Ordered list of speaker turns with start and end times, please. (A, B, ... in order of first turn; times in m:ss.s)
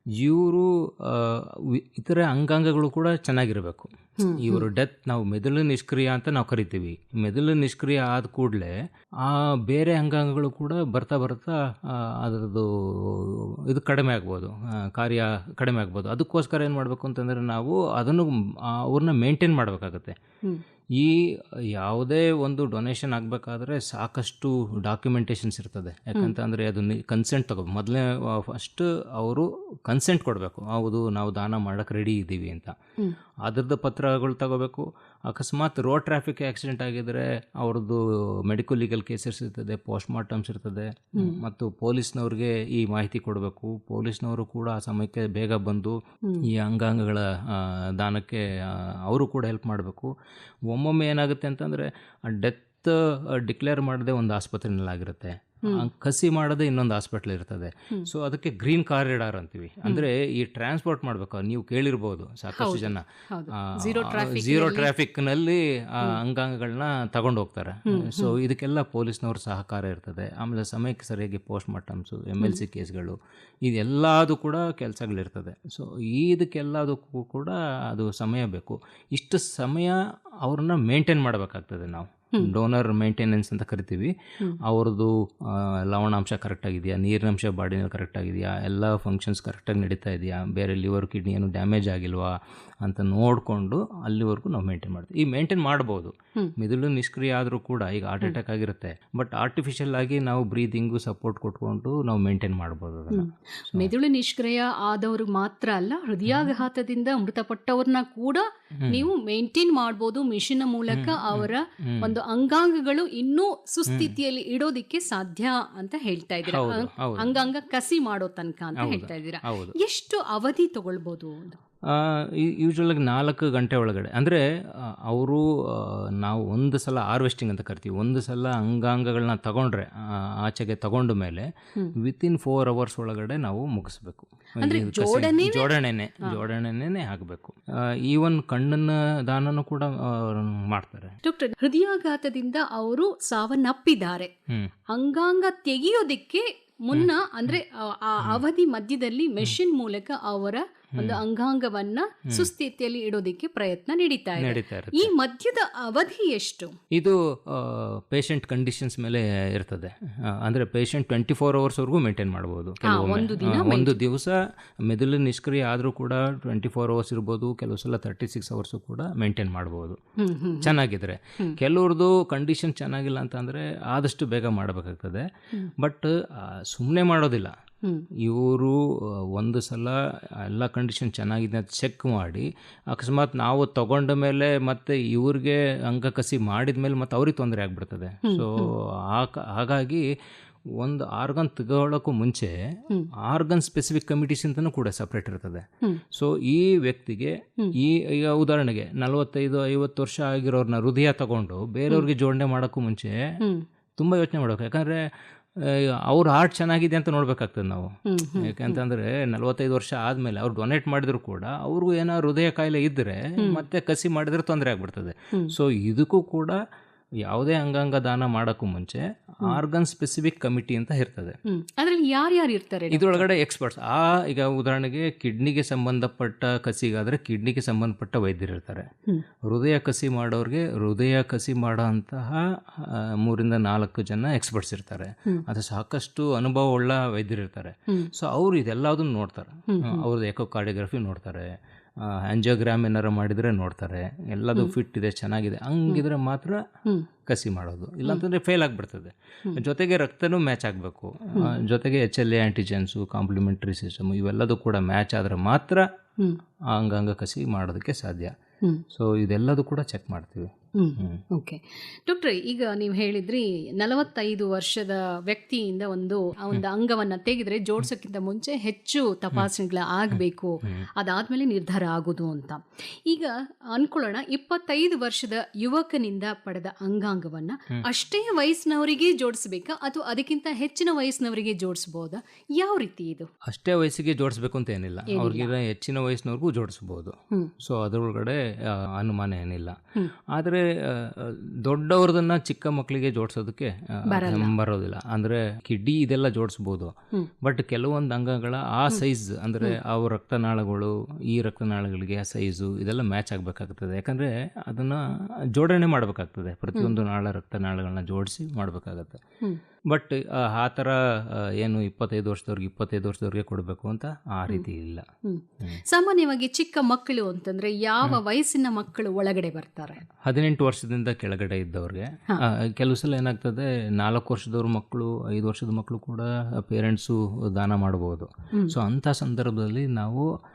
0:00.2-0:20.2 A
0:04.2-0:04.7 B
0:20.9-0:32.8 A
0:33.4-0:50.1 A
0:50.7-1:43.9 A
1:02.6-1:04.9 B
1:07.8-1:08.3 B
1:43.1-2:01.6 B
1:46.3-1:46.5 A
1:48.8-1:49.1 A
1:50.9-1:52.2 A
1:53.9-1:54.2 A
1:56.4-1:57.4 A
1:58.8-1:59.8 A
2:01.9-2:21.2 A
2:14.6-2:16.4 B
2:21.2-2:24.3 B
2:24.9-2:36.8 B
2:26.9-2:27.6 A
2:31.0-2:31.2 A
2:34.4-2:35.1 A
2:36.9-2:50.0 A
2:42.8-2:44.0 B
2:50.2-2:50.8 B
2:50.6-2:55.3 A
2:55.8-2:57.6 A
2:58.2-3:10.1 A
3:08.2-3:08.7 B
3:10.7-3:23.2 A
3:24.0-3:36.6 A
3:28.1-3:28.8 B
3:33.4-3:33.6 B
3:37.2-3:41.4 A
3:41.4-3:43.2 B
3:42.9-3:48.9 A
3:49.4-4:06.6 A
3:59.7-4:00.1 B
4:07.3-4:15.8 A
4:16.7-4:18.4 A
4:18.9-4:21.2 A
4:20.8-4:43.3 B
4:30.1-4:30.9 A
4:43.4-5:09.2 A
4:45.1-4:45.5 B
4:54.1-4:54.5 B
5:09.9-5:15.1 A
5:15.2-5:20.0 B
5:20.2-5:30.3 A